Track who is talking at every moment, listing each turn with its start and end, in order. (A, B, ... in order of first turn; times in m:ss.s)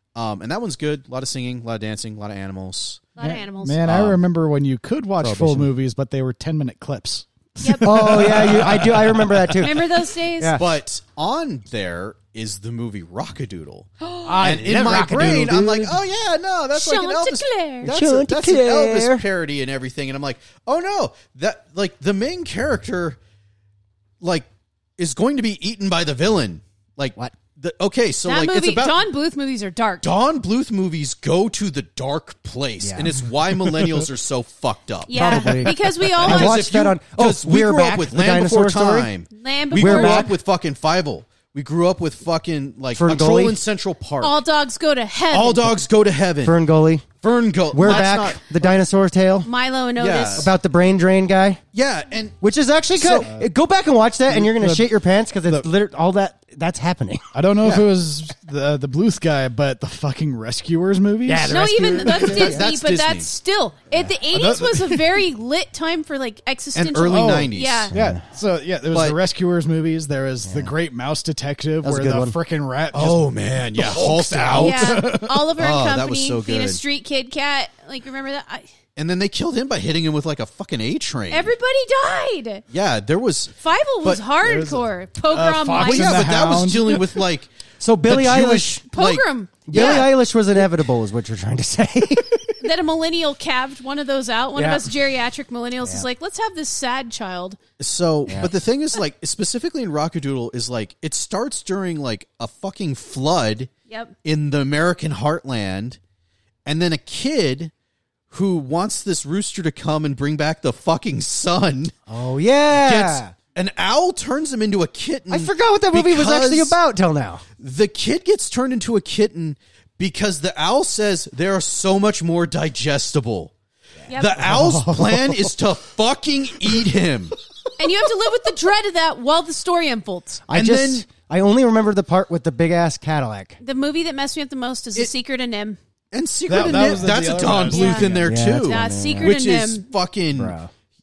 0:00.2-0:03.1 A
0:03.2-0:03.8 B
0:03.2-0:09.6 C
0:03.8-0:04.2 A
0:05.2-0:05.7 D
0:07.6-0:08.0 B
0:07.8-0:10.6 D
0:09.6-0:10.6 B
0:10.6-0:23.2 A
0:14.2-0:16.0 D
0:16.7-0:18.0 B
0:17.8-0:19.2 D
0:24.2-0:24.5 A
0:25.0-0:29.0 A
0:28.2-0:30.1 B
0:30.0-0:44.4 A
0:32.8-0:33.2 D
0:35.1-0:36.6 B
0:35.1-0:39.1 D
0:39.3-0:40.3 B
0:39.8-0:40.3 D
0:43.0-0:43.6 D
0:44.2-0:45.7 B
0:45.3-0:46.6 A
0:46.4-0:47.1 D
0:47.2-0:48.6 A
0:47.7-0:49.5 D
0:49.4-0:50.5 B
0:50.0-0:50.5 A
0:50.3-0:51.6 D
0:51.7-0:52.4 A
0:52.4-0:57.3 D
0:53.0-0:53.3 A
0:53.2-0:53.5 C
0:54.3-0:54.9 C
0:57.3-1:02.5 C
0:57.6-0:57.9 A
1:01.3-1:02.6 D
1:01.5-1:07.9 B
1:02.2-1:03.3 A
1:04.3-1:05.2 C
1:06.8-1:07.9 A
1:07.1-1:15.3 C
1:07.9-1:08.2 D
1:08.9-1:09.2 A
1:10.4-1:10.8 D
1:11.8-1:12.4 D
1:12.9-1:16.8 A
1:14.6-1:18.7 B
1:19.0-1:21.5 A
1:21.3-1:22.6 B
1:22.7-1:24.2 A
1:23.6-1:26.2 B
1:24.4-1:27.1 C
1:25.8-1:27.5 A
1:27.8-1:28.8 D
1:28.1-1:30.1 A
1:28.9-1:30.2 B
1:29.7-1:32.6 D
1:32.6-1:37.6 B
1:34.6-1:35.0 D
1:37.8-1:43.7 A
1:38.3-1:38.5 D
1:43.9-1:44.1 B
1:44.2-1:46.0 A
1:46.7-1:47.7 A
1:48.3-1:51.9 A
1:52.1-1:53.3 D
1:52.7-1:56.8 A
1:55.3-1:57.4 D
1:57.6-2:03.5 A
2:04.1-2:04.4 B
2:04.2-2:07.4 A
2:04.4-2:05.5 C
2:07.8-2:10.4 B
2:10.5-2:13.6 D
2:10.5-2:11.0 A
2:13.6-2:15.8 B
2:16.1-2:20.6 A
2:16.5-2:18.4 C
2:17.7-2:19.9 B
2:18.2-2:19.4 D
2:20.4-2:20.7 D